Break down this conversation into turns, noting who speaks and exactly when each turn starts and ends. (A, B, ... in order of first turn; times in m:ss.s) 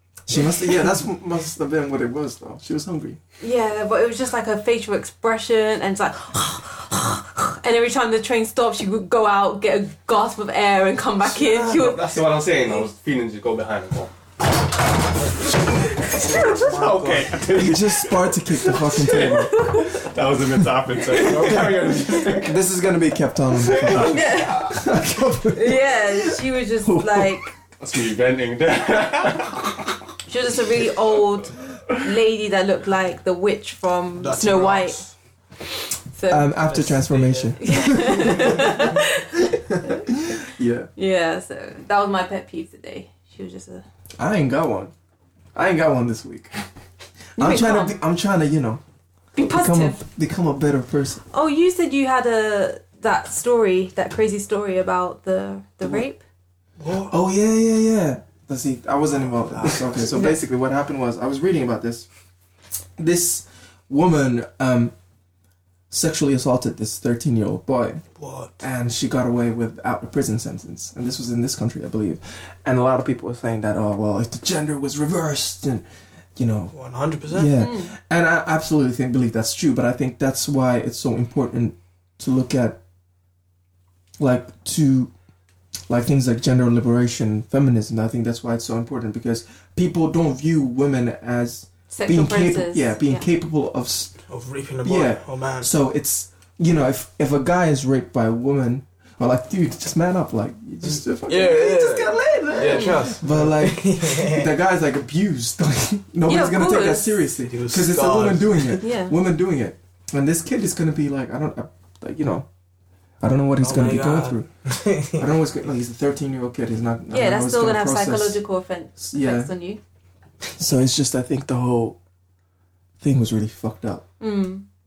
0:00.3-0:03.2 A
0:03.4-0:12.3 B
0:11.2-0:14.1 C
0:15.2-0:22.6 C
0:15.9-0:17.9 D
0:16.1-0:16.5 B
0:17.5-0:19.6 A
0:19.4-0:20.0 B
0:21.2-0:21.6 D
0:22.4-0:27.5 A
0:23.8-0:24.2 D
0:23.8-0:24.8 B
0:25.6-0:27.5 B
0:27.8-0:30.0 C
0:30.3-0:35.0 B
0:34.2-0:35.1 D
0:36.1-0:36.5 B
0:36.3-0:40.9 A
0:36.6-0:38.9 D
0:37.6-0:40.1 B
0:41.0-0:43.8 B
0:44.2-0:44.9 A
0:45.6-0:46.6 A
0:47.4-0:48.0 B
0:47.4-0:48.8 A
0:49.4-0:50.0 B
0:49.4-0:51.2 A
0:51.3-0:56.2 B
0:56.8-0:57.1 D
0:57.1-1:02.1 A
0:59.4-1:00.2 D
1:00.1-1:00.4 B
1:03.0-1:04.9 A
1:05.9-1:08.0 A
1:08.2-1:08.6 D
1:08.6-1:15.8 A
1:16.4-1:16.8 A
1:16.7-1:17.5 D
1:17.3-1:22.8 A
1:17.6-1:17.9 B
1:24.2-1:25.1 A
1:25.9-1:34.2 A
1:31.9-1:33.3 B
1:34.3-1:35.7 D
1:34.8-1:52.5 A
1:40.9-1:44.5 D
1:42.6-1:43.0 B
1:46.3-1:47.2 B
1:47.4-1:48.8 D
1:48.8-1:49.1 B
1:53.2-1:54.4 A
1:53.6-1:55.3 D
1:55.1-1:58.4 A
1:57.1-1:59.8 B
1:59.0-1:59.5 A
2:00.6-2:02.0 A
2:03.0-2:04.0 A
2:04.2-2:04.6 B